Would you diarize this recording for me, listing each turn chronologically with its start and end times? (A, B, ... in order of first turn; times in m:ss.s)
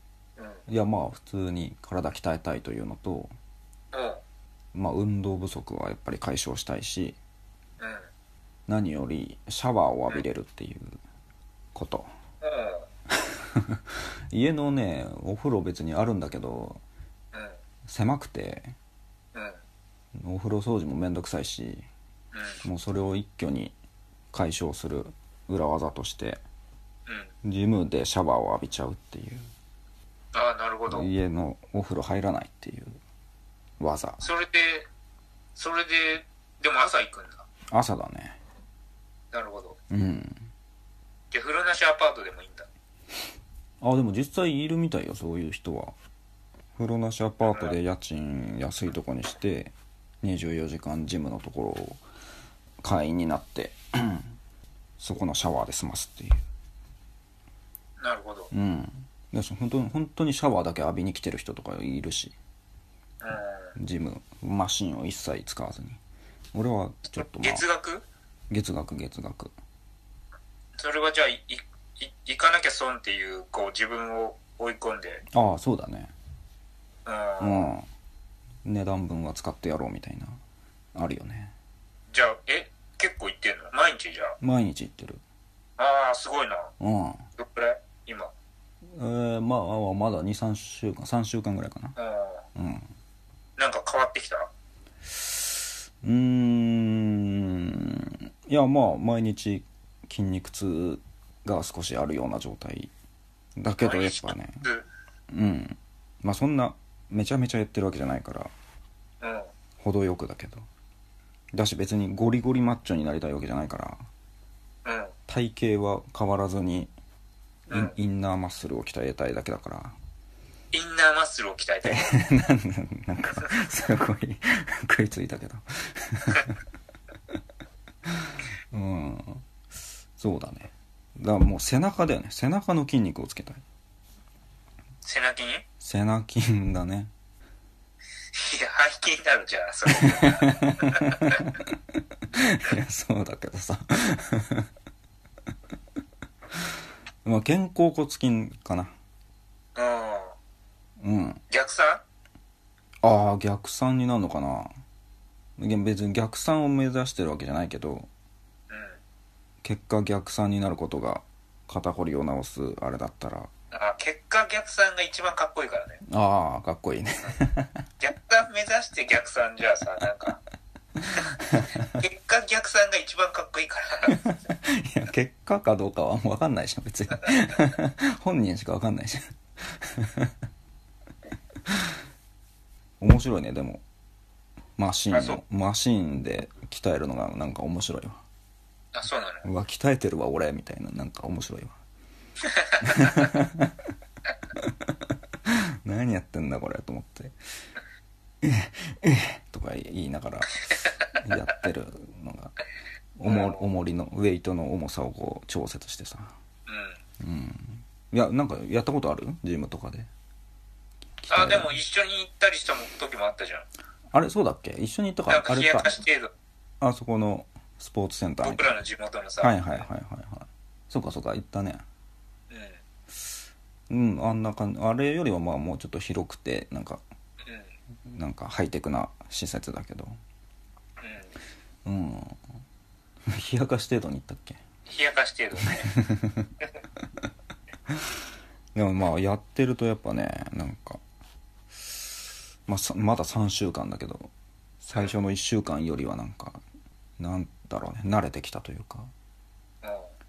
0:00.4-0:00.6 A
0:00.7-0:03.3 B
0:03.9-0:04.2 A
0:04.7-0:07.2 B
0:07.8-0:08.1 A
0:08.7-0:11.0 B
0:11.7-0:12.1 B
0:12.4-0:12.9 A
0:13.3-0:16.8 B
0:17.3-0:17.6 A
0:17.8-0:18.8 B
0:19.3-0:19.6 A
0:20.2-0:21.9 B
0:22.3-0:22.6 A
0:22.6-0:23.7 B
0:24.3-0:26.4 B
0:27.1-0:27.3 A
0:27.4-0:29.5 B
0:30.3-0:31.1 A
0:30.9-0:33.0 B
0:33.8-0:34.2 B
0:34.2-0:34.9 A
0:35.6-0:37.5 A
0:37.7-0:38.4 B
0:39.3-0:39.8 A
0:39.9-0:40.5 B
0:41.3-0:42.7 A
0:43.8-0:45.9 B
0:46.8-0:52.0 B
0:47.4-0:47.8 A
0:52.8-0:54.3 B
0:55.0-0:56.4 B
0:58.0-0:58.5 A
0:58.5-1:02.4 B
1:03.2-1:03.7 A
1:03.8-1:06.0 B
1:06.5-1:07.6 B
1:07.1-1:08.1 A
1:08.5-1:09.5 B
1:10.8-1:15.2 A
1:15.3-1:16.1 B
1:17.1-1:17.7 A
1:17.4-1:17.9 B
1:18.6-1:20.4 B
1:21.0-1:21.5 B
1:22.1-1:24.4 A
1:24.4-1:25.2 B
1:25.8-1:26.7 A
1:26.8-1:27.2 B
1:27.4-1:28.3 A
1:28.8-1:32.0 B
1:32.0-1:32.4 A
1:32.6-1:32.9 B
1:33.6-1:34.5 A
1:36.0-1:42.9 B
1:43.6-1:44.6 B
1:43.8-1:44.9 A
1:45.3-1:48.5 B
1:49.2-1:49.5 A
1:49.8-1:50.6 B
1:51.5-1:54.0 B
1:54.8-1:55.2 A
1:55.3-1:56.9 B
1:57.7-1:58.0 A
1:57.7-2:00.0 B
2:00.7-2:02.1 A
2:01.9-2:06.6 B
2:08.1-2:09.4 B
2:10.2-2:13.6 B
2:15.0-2:15.6 A
2:15.8-2:17.1 B
2:18.4-2:21.6 A
2:19.9-2:24.7 B
2:27.2-2:28.9 B
2:29.8-2:30.4 A
2:31.0-2:31.4 B
2:31.5-2:32.0 A
2:33.0-2:34.7 B
2:35.6-2:38.1 B
2:38.7-2:39.0 A
2:39.6-2:43.5 B
2:43.7-2:46.0 A
2:46.0-2:47.8 B
2:48.0-2:50.4 A
2:51.0-2:52.0 B
2:51.2-2:54.3 A
2:54.1-3:00.3 B
3:03.0-3:03.8 B
3:04.8-3:08.2 B
3:05.1-3:05.4 A
3:08.9-3:09.5 A
3:09.4-3:11.8 B
3:12.4-3:13.3 A
3:12.8-3:13.7 B
3:14.5-3:17.4 B
3:18.4-3:22.6 B
3:23.2-3:26.3 B
3:23.3-3:23.7 A
3:26.7-3:27.0 A
3:27.2-3:30.1 B
3:31.2-3:31.7 B
3:31.3-3:33.7 A
3:34.1-3:35.9 B
3:35.3-3:36.3 A
3:36.8-3:38.7 B
3:38.4-3:39.9 A
3:39.4-3:41.8 B
3:42.5-3:42.8 A
3:43.9-3:47.0 B
3:47.4-3:47.7 A
3:48.1-3:50.2 B
3:51.0-3:51.4 A
3:51.8-3:52.4 B
3:53.3-3:54.6 B
3:54.9-3:55.9 A
3:55.8-3:56.5 B
3:58.7-4:01.0 B
4:02.7-4:04.3 B
4:04.8-4:06.6 B
4:07.2-4:09.1 B
4:09.8-4:10.1 A